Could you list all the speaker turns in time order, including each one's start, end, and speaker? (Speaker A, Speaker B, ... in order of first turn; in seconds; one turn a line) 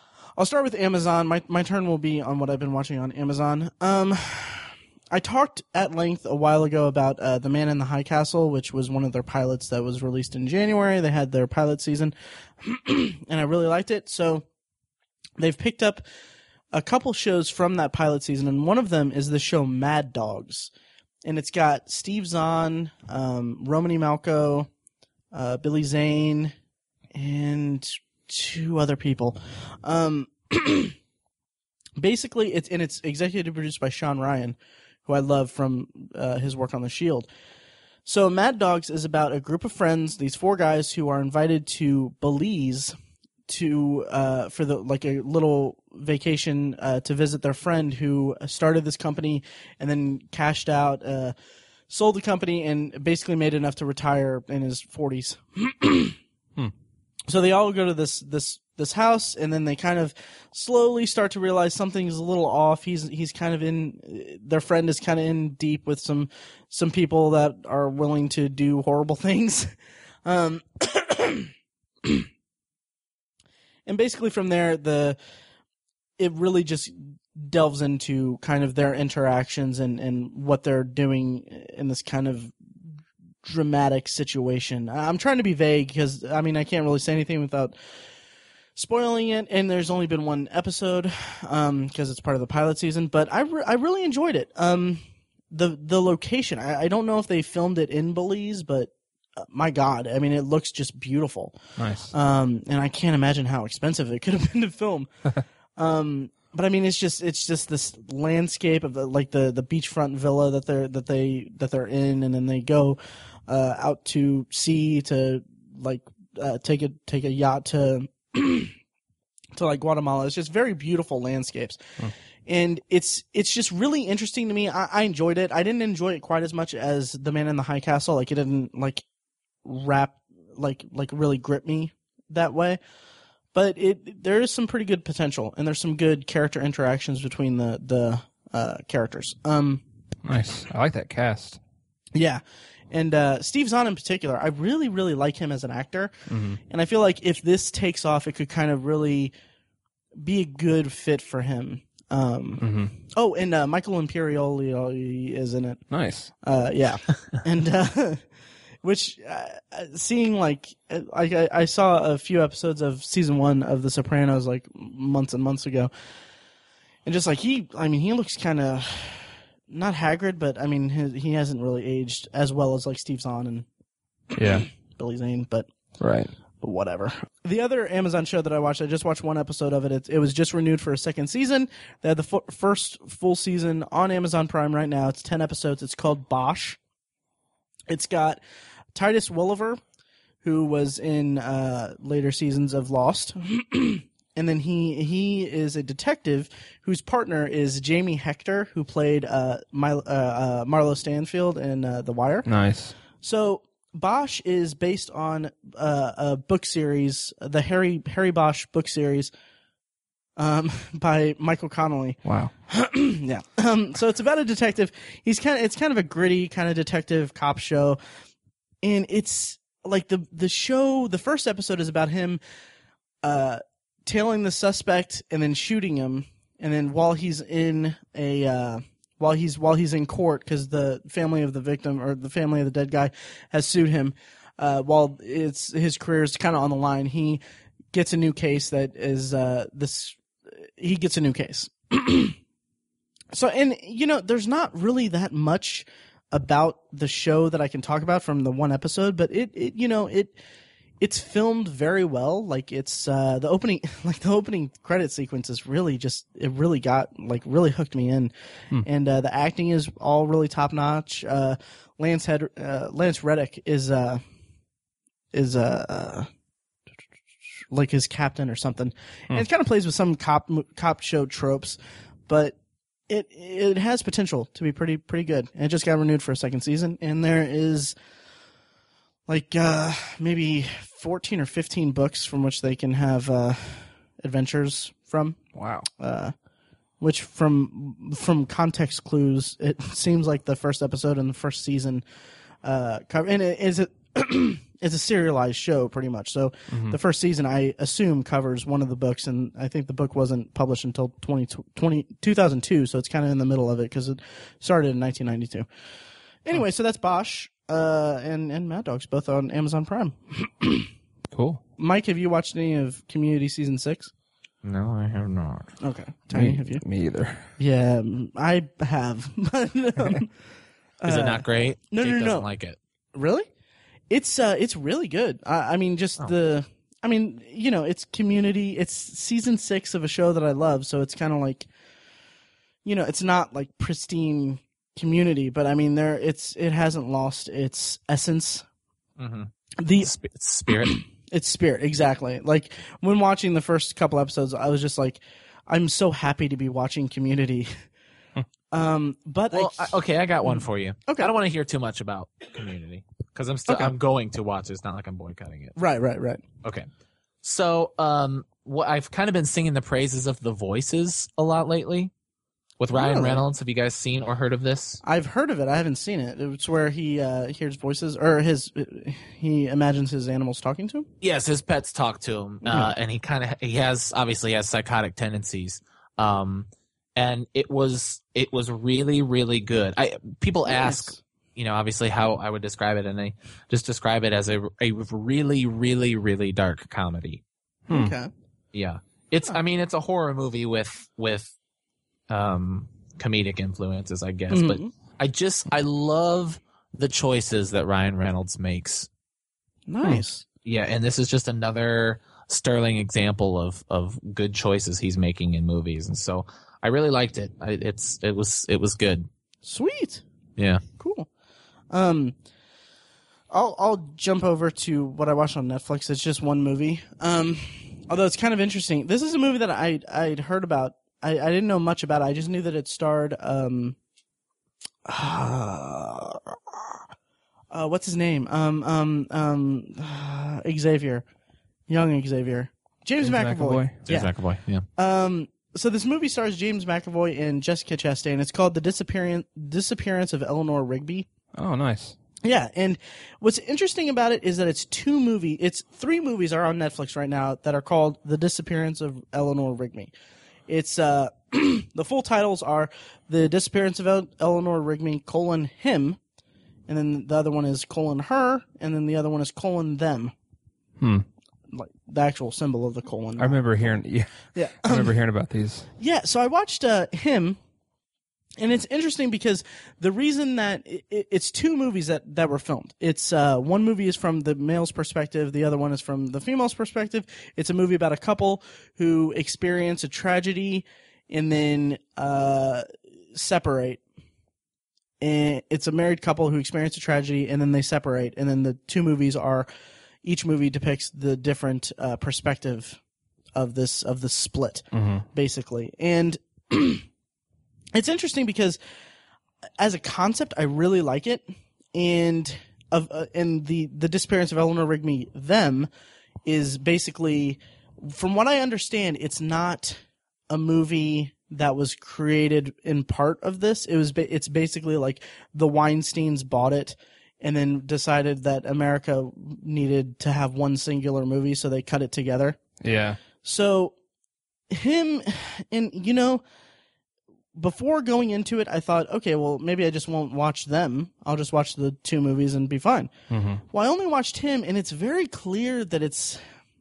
Speaker A: 0.4-14.4
Speaker A: 15.4-16.0
Speaker A: 16.7-20.7
Speaker A: 21.2-24.7
Speaker A: 25.3-26.5
Speaker A: 27.1-30.9
Speaker A: 32.0-37.3
Speaker A: 38.0-42.9
Speaker A: 43.5-51.3
Speaker A: 51.9-56.2
Speaker A: 57.3-69.7
Speaker A: 70.2-71.5
Speaker A: 73.9-75.2
Speaker A: 76.2-82.5
Speaker A: 83.4-87.7
Speaker A: 88.8-101.6
Speaker B: 101.8-102.1
Speaker A: 102.1-105.1
Speaker A: 105.8-118.7
Speaker A: 119.5-121.8
Speaker A: 122.5-129.0
Speaker A: 129.6-132.8
Speaker A: 133.5-139.8
Speaker B: 140.2-141.6
Speaker A: 142.1-146.1
Speaker B: 146.3-146.6
Speaker A: 146.7-149.3
Speaker A: 150.2-155.8
Speaker B: 152.6-152.9
Speaker B: 155.9-156.3
Speaker A: 156.4-158.2
Speaker A: 158.8-165.9
Speaker A: 167.0-173.7
Speaker B: 174.3-174.7
Speaker A: 174.4-175.7
Speaker B: 176.0-176.3
Speaker A: 176.6-186.8
Speaker A: 187.9-188.4
Speaker A: 188.9-189.8
Speaker A: 190.4-202.5
Speaker B: 202.4-202.9
Speaker A: 203.2-209.3
Speaker A: 210.4-218.0
Speaker B: 212.2-212.5
Speaker A: 218.8-222.4
Speaker A: 223.2-237.4
Speaker A: 237.9-242.4
Speaker A: 243.3-250.4
Speaker A: 251.0-264.2
Speaker A: 265.3-266.3
Speaker A: 267.7-272.6
Speaker A: 273.1-277.9
Speaker A: 279.3-285.4
Speaker B: 285.5-285.9
Speaker A: 286.0-286.3
Speaker A: 287.0-292.0
Speaker A: 292.6-305.7
Speaker B: 296.7-297.0
Speaker A: 306.4-310.9
Speaker B: 311.3-311.6
Speaker A: 311.8-314.1
Speaker C: 314.6-315.7
Speaker A: 315.8-316.8
Speaker B: 316.3-317.5
Speaker A: 317.6-320.3
Speaker A: 321.0-322.5
Speaker C: 321.1-322.8
Speaker A: 323.1-323.5
Speaker A: 324.1-331.7
Speaker A: 332.8-338.6
Speaker C: 339.2-339.5
Speaker A: 339.8-340.1
Speaker C: 340.0-341.0
Speaker A: 340.7-347.7
Speaker A: 348.7-351.3
Speaker C: 349.5-355.8
Speaker A: 353.7-353.9
Speaker A: 355.8-356.4
Speaker C: 357.4-362.1
Speaker C: 362.8-365.0
Speaker A: 362.9-363.4
Speaker A: 365.0-371.1
Speaker C: 371.2-387.4
Speaker A: 380.6-381.2
Speaker B: 387.9-388.1
Speaker A: 387.9-388.3
Speaker C: 388.7-391.5
Speaker C: 392.3-399.1
Speaker A: 394.5-394.9
Speaker A: 399.9-400.4
Speaker C: 400.6-409.3
Speaker A: 409.6-410.2
Speaker C: 410.6-410.8
Speaker A: 411.0-411.3
Speaker A: 411.9-412.3
Speaker A: 413.5-424.0
Speaker A: 425.1-427.0
Speaker A: 427.7-431.2
Speaker A: 431.9-434.3
Speaker B: 433.2-434.0
Speaker C: 434.1-434.8
Speaker A: 434.9-441.3
Speaker B: 441.5-442.2
Speaker A: 442.4-450.1
Speaker A: 450.7-456.2
Speaker A: 456.9-460.3
Speaker B: 461.0-461.3
Speaker A: 461.7-463.6
Speaker B: 463.4-465.9
Speaker A: 464.5-465.1
Speaker A: 466.0-467.6
Speaker A: 468.6-484.0
Speaker A: 485.2-489.7
Speaker A: 490.2-493.0
Speaker A: 493.5-497.1
Speaker B: 494.9-495.2
Speaker A: 497.9-498.8
Speaker A: 499.8-505.9
Speaker A: 506.4-522.6
Speaker B: 522.8-523.2
Speaker A: 523.4-523.9
Speaker A: 524.7-526.4
Speaker A: 527.5-533.1
Speaker B: 533.3-533.6
Speaker A: 533.7-536.4